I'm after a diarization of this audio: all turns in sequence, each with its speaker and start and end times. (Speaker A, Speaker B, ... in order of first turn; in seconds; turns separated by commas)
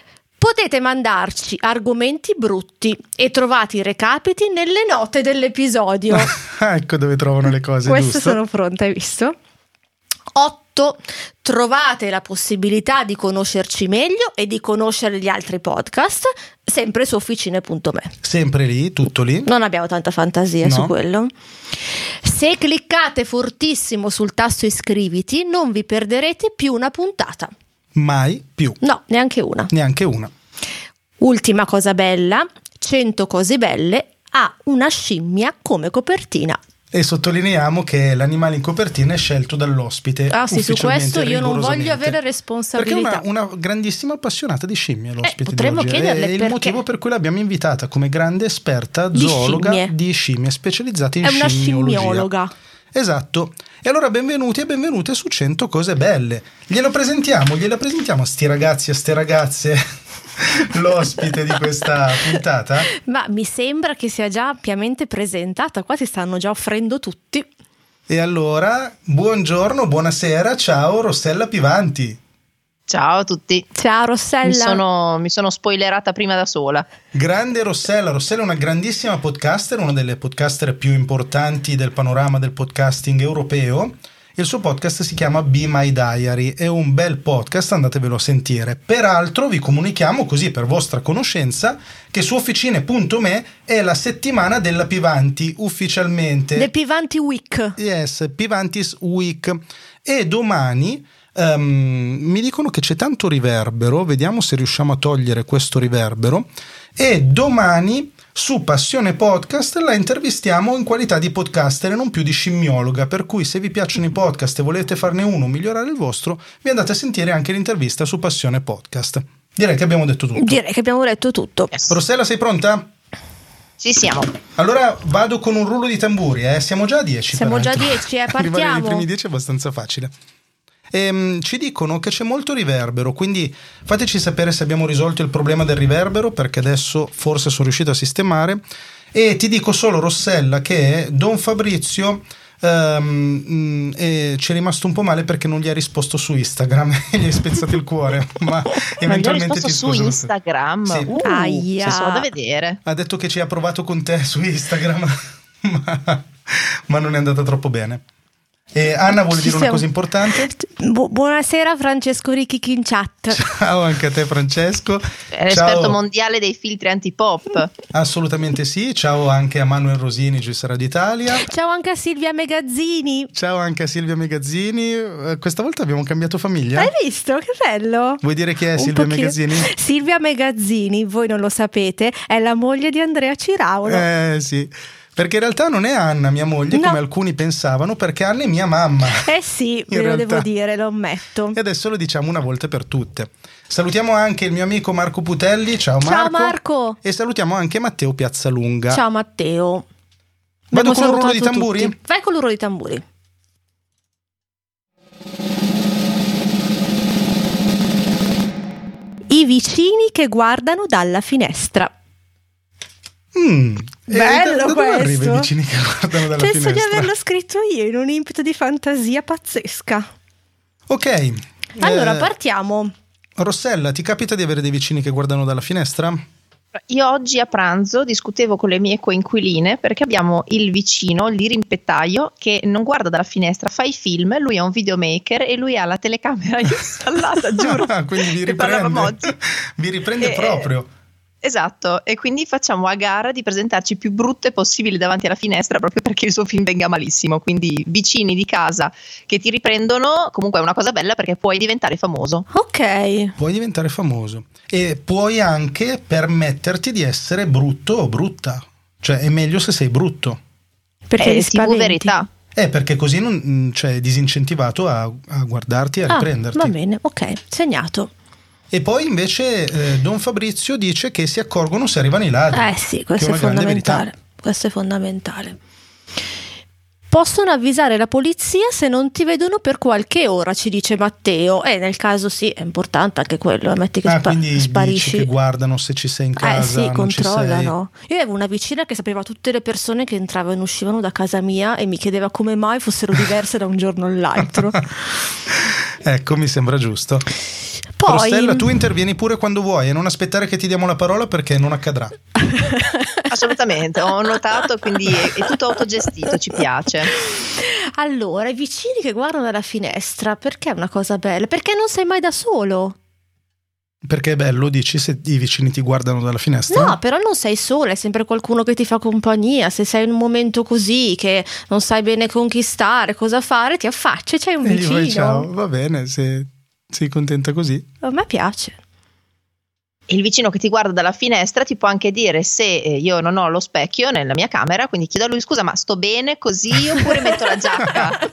Speaker A: 0.4-6.3, Speaker B: 6.1-8.4, Speaker A: 7.8-9.3, Speaker A: 10.3-18.1, Speaker B: 18.2-19.5, Speaker A: 19.4-21.3, Speaker B: 20.6-20.9, Speaker A: 22.2-27.5, Speaker B: 27.9-28.8, Speaker A: 28.8-29.7, Speaker B: 29.7-30.3, Speaker A: 31.2-36.6, Speaker B: 36.9-42.2, Speaker A: 40.3-43.2, Speaker B: 42.8-52.3, Speaker A: 45.2-46.8, Speaker A: 49.1-49.9, Speaker A: 51.2-52.5, Speaker B: 52.9-59.8, Speaker B: 60.4-62.9, Speaker A: 62.9-67.5, Speaker B: 68.1-72.2, Speaker C: 72.9-73.7, Speaker A: 73.7-74.8, Speaker C: 74.4-76.9, Speaker B: 77.1-96.7, Speaker A: 96.5-97.8, Speaker B: 97.8-120.6, Speaker A: 120.3-121.7, Speaker B: 121.9-122.9, Speaker C: 123.8-124.3, Speaker B: 124.5-130.1, Speaker A: 127.3-129.0, Speaker B: 130.9-150.3, Speaker C: 149.0-152.8, Speaker B: 150.8-151.1, Speaker A: 151.2-152.3, Speaker B: 152.8-158.0, Speaker B: 158.7-160.5, Speaker A: 159.3-163.4, Speaker B: 163.3-166.0, Speaker C: 165.3-167.7, Speaker B: 167.9-171.5, Speaker A: 171.4-173.3, Speaker B: 173.3-176.9, Speaker A: 176.8-178.2, Speaker B: 178.2-179.7, Speaker A: 178.8-184.0, Speaker B: 183.8-189.3, Speaker A: 186.7-187.0, Speaker A: 189.2-191.6, Speaker B: 189.9-190.5, Speaker B: 191.5-199.0, Speaker A: 196.0-197.0, Speaker A: 198.9-199.8, Speaker A: 200.7-203.0, Speaker B: 200.7-202.0, Speaker A: 209.3-211.9, Speaker B: 213.3-217.1, Speaker A: 214.1-215.5, Speaker A: 216.4-220.1, Speaker B: 220.9-222.3, Speaker A: 221.8-222.9, Speaker B: 223.4-226.2, Speaker C: 226.9-239.3, Speaker B: 237.6-240.9, Speaker C: 240.2-240.7, Speaker C: 241.4-252.5, Speaker A: 252.5-253.3, Speaker B: 253.4-260.4, Speaker A: 261.1-262.1, Speaker C: 261.2-262.3, Speaker B: 262.5-266.7, Speaker A: 266.1-268.1, Speaker B: 268.7-274.1, Speaker A: 272.5-275.6, Speaker A: 277.1-285.3, Speaker B: 284.0-287.7, Speaker A: 286.4-294.9, Speaker B: 294.4-294.8, Speaker B: 295.5-297.3, Speaker A: 298.0-298.7, Speaker B: 298.0-302.2, Speaker A: 302.4-303.3, Speaker C: 303.3-307.1, Speaker A: 307.2-313.0, Speaker B: 314.0-317.0, Speaker A: 316.7-325.5, Speaker B: 324.6-327.9, Speaker A: 328.0-328.8, Speaker C: 330.1-338.2, Speaker B: 337.8-338.1